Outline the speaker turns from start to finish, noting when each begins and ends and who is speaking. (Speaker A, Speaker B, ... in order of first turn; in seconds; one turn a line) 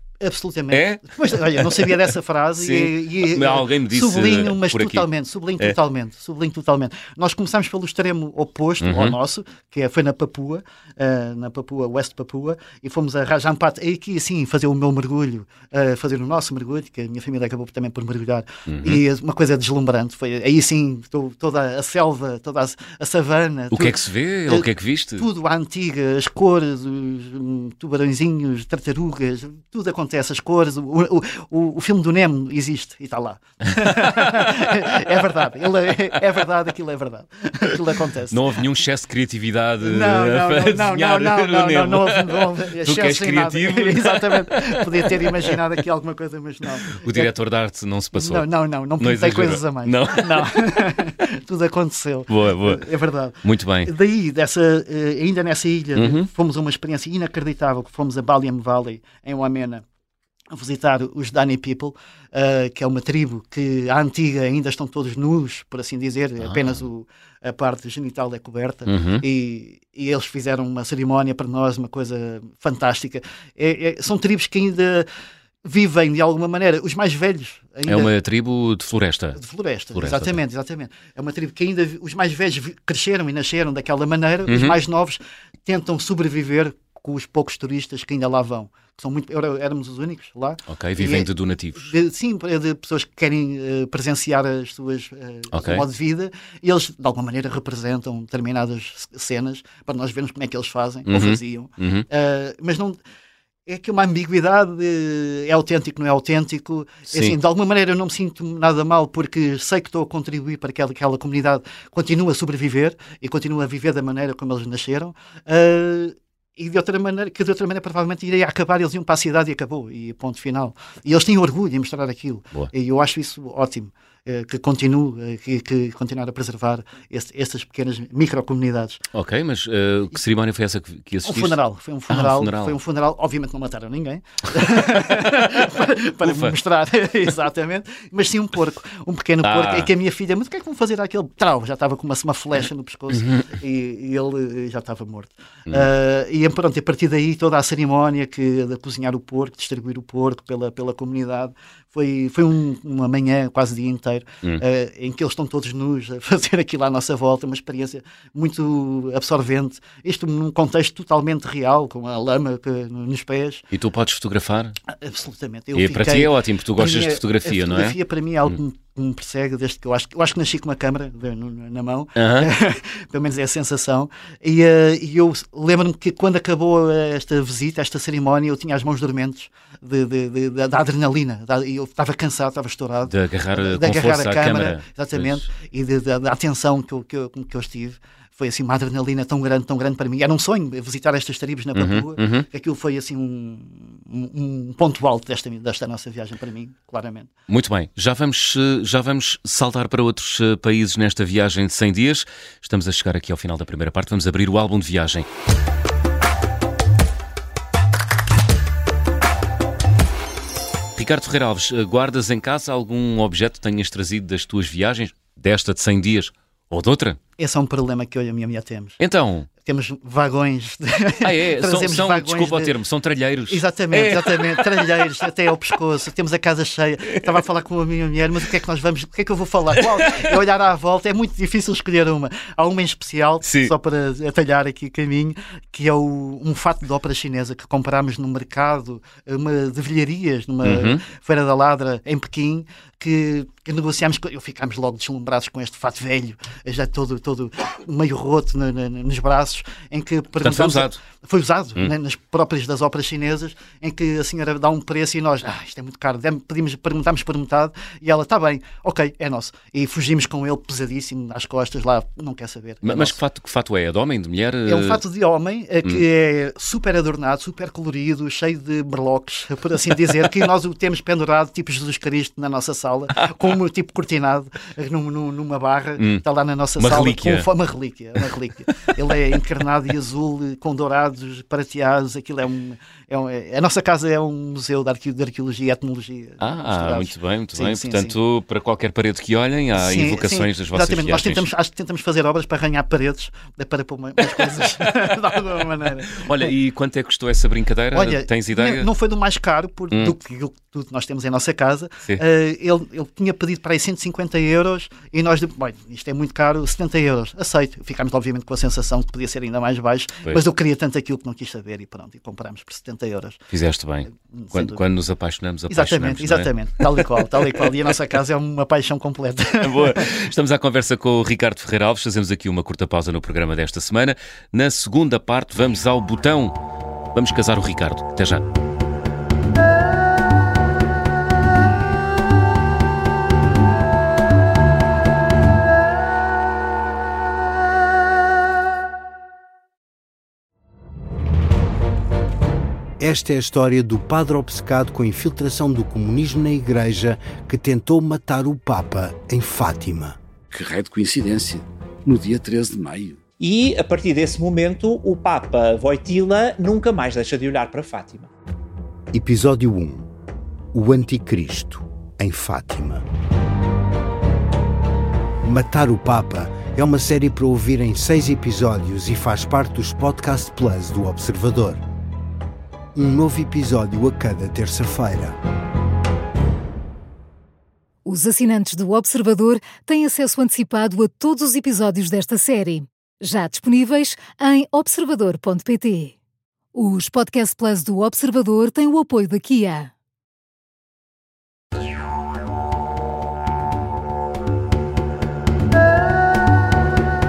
Speaker A: 0.2-38.4
Speaker B: 0.7-5.1
Speaker B: 8.8-9.2
Speaker B: 18.7-19.0
Speaker B: 23.7-25.3
Speaker B: 38.3-45.5
Speaker A: 39.8-47.3
Speaker B: 46.9-50.8
Speaker A: 48.1-59.8
Speaker B: 52.3-52.9
Speaker B: 53.4-53.9
Speaker B: 56.0-56.3
Speaker A: 60.5-75.1
Speaker B: 66.4-66.8
Speaker B: 68.9-69.2
Speaker A: 75.7-78.1
Speaker B: 77.9-79.4
Speaker A: 79.3-103.0
Speaker B: 80.0-80.4
Speaker B: 84.5-84.8
Speaker B: 90.7-91.9
Speaker B: 95.5-95.8
Speaker B: 101.1-102.1
Speaker A: 103.7-129.0
Speaker B: 107.1-107.4
Speaker B: 129.1-131.6
Speaker A: 131.3-163.6
Speaker B: 132.1-132.8
Speaker B: 136.2-136.6
Speaker B: 139.4-139.9
Speaker B: 143.1-143.5
Speaker B: 163.7-164.8
Speaker A: 164.9-197.3
Speaker B: 165.8-168.0
Speaker B: 172.2-172.5
Speaker B: 183.1-185.4
Speaker B: 191.8-192.5
Speaker B: 197.5-205.3
Speaker B: 211.0-217.2
Speaker A: 217.4-219.0
Speaker B: 219.0-219.5
Speaker A: 219.6-222.8
Speaker B: 221.2-225.3
Speaker A: 223.5-263.2
Speaker B: 233.4-233.7
Speaker B: 240.6-241.0
Speaker B: 250.4-251.0
Speaker B: 262.8-265.0
Speaker A: 264.7-288.1
Speaker B: 273.3-273.5
Speaker B: 276.0-276.2
Speaker B: 276.8-277.5
Speaker B: 286.4-291.5
Speaker A: 289.8-296.5
Speaker B: 294.4-295.1
Speaker B: 296.1-298.9
Speaker A: 297.9-313.4
Speaker B: 313.5-317.7
Speaker A: 314.2-314.8
Speaker A: 315.7-320.1
Speaker B: 319.6-326.6
Speaker B: 327.1-328.4
Speaker C: 343.0-350.2
Speaker D: 350.5-353.2
Speaker E: 353.4-358.3
Speaker C: 359.1-360.1
Speaker C: 360.7-363.0
Speaker C: 365.4-371.8
Speaker C: 372.9-375.4
Speaker F: 378.1-386.1
Speaker F: 386.8-389.9